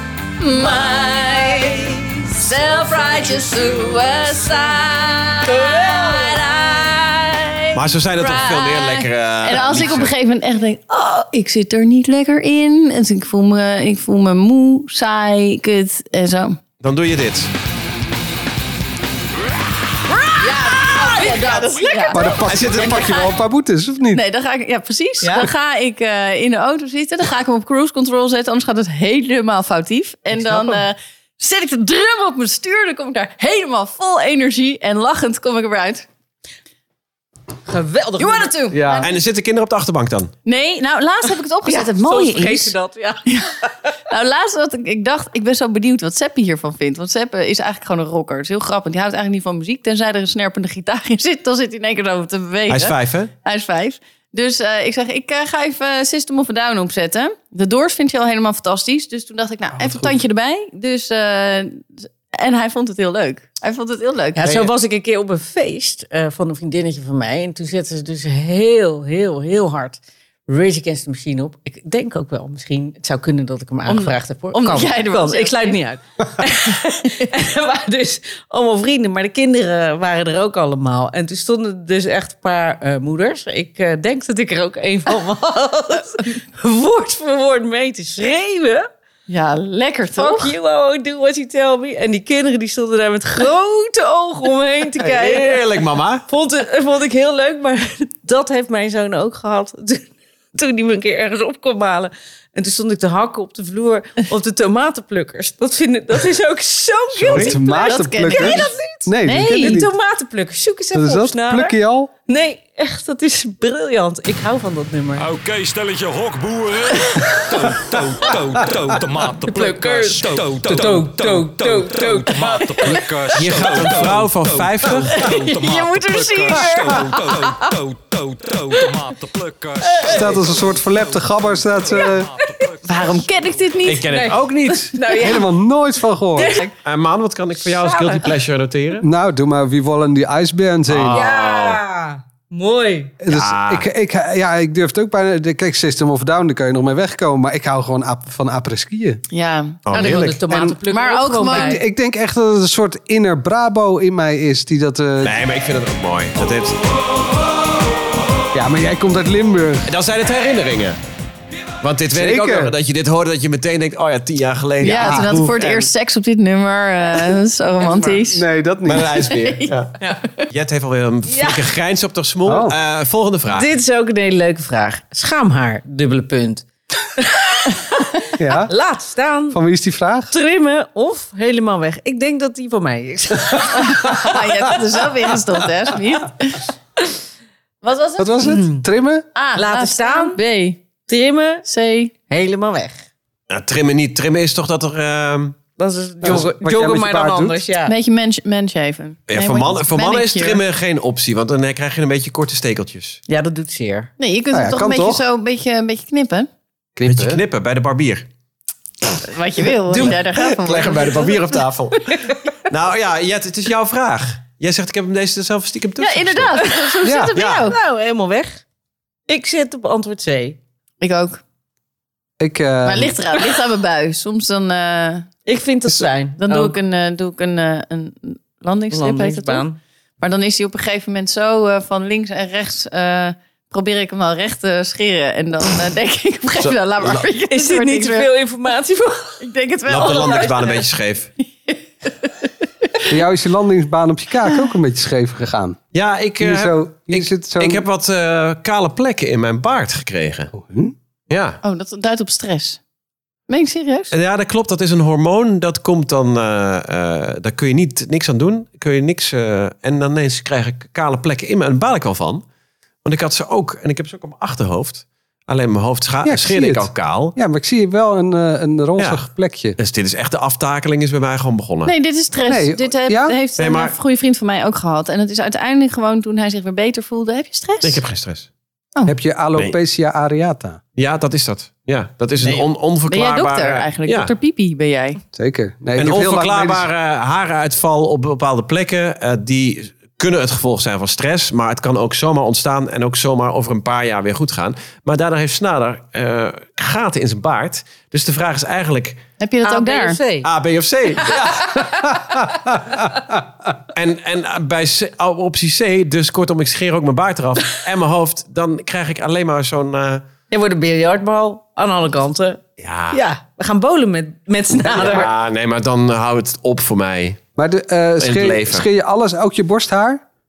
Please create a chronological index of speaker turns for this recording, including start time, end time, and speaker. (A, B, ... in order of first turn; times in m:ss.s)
0:00.4-0:09.0 A
0:00.5-0:01.7 B
0:03.1-0:03.9 B
0:05.7-0:06.2 B
0:07.7-0:10.1 C
0:09.4-0:16.6 B
0:16.8-0:17.5 C
0:20.4-0:22.4 A
0:20.4-0:23.3 B
0:22.1-0:24.2 D
0:22.4-0:23.0 C
0:24.1-0:36.0 B
0:25.2-0:25.5 A
0:37.7-0:39.0 A
0:38.2-0:39.1 B
0:38.7-0:39.1 D
0:39.0-0:40.3 C
0:40.4-0:42.7 B
0:41.6-0:43.3 A
0:44.1-1:04.7 B
0:52.7-0:53.3 C
0:59.8-1:00.1 D
1:04.4-1:28.9 A
1:13.9-1:15.8 B
1:29.3-1:30.5 B
1:30.2-1:35.6 A
1:35.0-1:36.2 C
1:36.3-1:51.7 A
1:47.1-1:49.9 D
1:47.2-1:47.5 C
1:47.7-1:49.8 B
1:50.9-1:52.1 D
1:52.3-1:55.3 A
1:55.2-2:13.3 E
1:57.1-1:57.7 A
1:59.3-2:03.1 A
2:03.3-2:05.2 C
2:05.1-2:07.5 B
2:07.3-2:07.7 A
2:09.8-2:10.3 A
2:10.0-2:12.3 D
2:12.4-2:12.6 A
2:12.8-2:14.1 B
2:13.8-2:14.9 C
2:14.1-2:15.5 A
2:15.1-2:16.6 D
2:16.3-2:16.7 A
2:16.8-2:19.0 C
2:17.7-2:18.3 A
2:19.0-2:21.2 D
2:20.9-2:21.8 C
2:21.1-2:23.1 A
2:23.2-2:29.2 D
2:23.3-2:23.8 C
2:29.3-2:29.8 B
2:29.8-2:30.4 C
2:29.9-2:31.8 A
2:30.5-2:30.8 D
2:30.9-2:31.8 B
2:31.4-2:35.4 D
2:35.2-2:36.8 C
2:38.5-2:39.9 D
2:39.8-2:41.0 C
2:41.8-2:45.9 C
2:42.1-2:42.7 D
2:44.8-2:48.4 B
2:44.8-2:45.4 D
2:48.2-2:49.1 D
2:48.8-2:49.9 C
2:49.3-2:49.7 B
2:50.5-2:53.7 C
2:51.3-2:51.6 A
2:52.4-2:52.7 D
2:53.5-2:59.6 A
2:58.4-2:58.7 D
2:59.5-3:00.3 D
3:00.3-3:04.3 A
3:03.8-3:06.7 B
3:07.8-3:08.6 B
3:08.2-3:09.3 D
3:08.4-3:08.8 A
3:09.3-3:10.8 B
3:09.5-3:10.4 A
3:11.0-3:11.6 A
3:11.6-3:12.1 B
3:12.3-3:13.1 A
3:13.5-3:15.6 C
3:15.8-3:17.9 A
3:16.2-3:17.6 D
3:17.8-3:20.6 B
3:19.3-3:23.2 C
3:23.3-3:24.1 A
3:24.2-3:26.5 B
3:24.5-3:25.2 D
3:27.0-3:27.4 D
3:27.0-3:28.3 C
3:29.2-3:31.5 B
3:29.9-3:36.6 C
3:36.0-3:37.8 B
3:36.6-3:38.6 A
3:37.0-3:37.4 D
3:37.4-3:37.7 C
3:39.3-3:40.6 A
3:41.0-3:41.4 B
3:42.4-3:43.2 D
3:42.8-3:45.3 B
3:45.4-3:46.7 A
3:46.4-3:49.6 B
3:48.9-3:49.8 A
3:50.2-3:58.3 B
3:56.6-3:57.2 C
3:57.5-3:59.4 A
3:59.4-4:00.8 B
3:59.9-4:01.3 C
4:01.7-4:02.3 B
4:03.1-4:05.8 D
4:05.9-4:10.5 C
4:06.4-4:07.8 D
4:10.5-4:10.9 D
4:11.3-4:11.6 C
4:11.6-4:12.8 B
4:13.5-4:14.1 B
4:14.1-4:22.4 C
4:23.0-4:27.4 C
4:26.2-4:29.8 D
4:29.0-4:29.2 C
4:29.8-4:31.9 C
4:31.8-4:38.0 B
4:32.5-4:33.4 D
4:33.6-4:33.9 C
4:37.8-4:38.5 C
4:39.0-4:40.8 D
4:41.0-4:44.3 C
4:42.4-4:45.2 B
4:45.3-4:46.9 D
4:46.0-4:59.2 C
4:59.4-5:00.2 B
4:59.6-5:00.5 A
5:00.4-5:02.2 C
5:01.2-5:03.1 A
5:03.9-5:10.2 C
5:10.5-5:15.3 A
5:12.8-5:13.2 C
5:14.9-5:17.4 C
5:17.6-5:20.2 D
5:18.2-5:18.8 C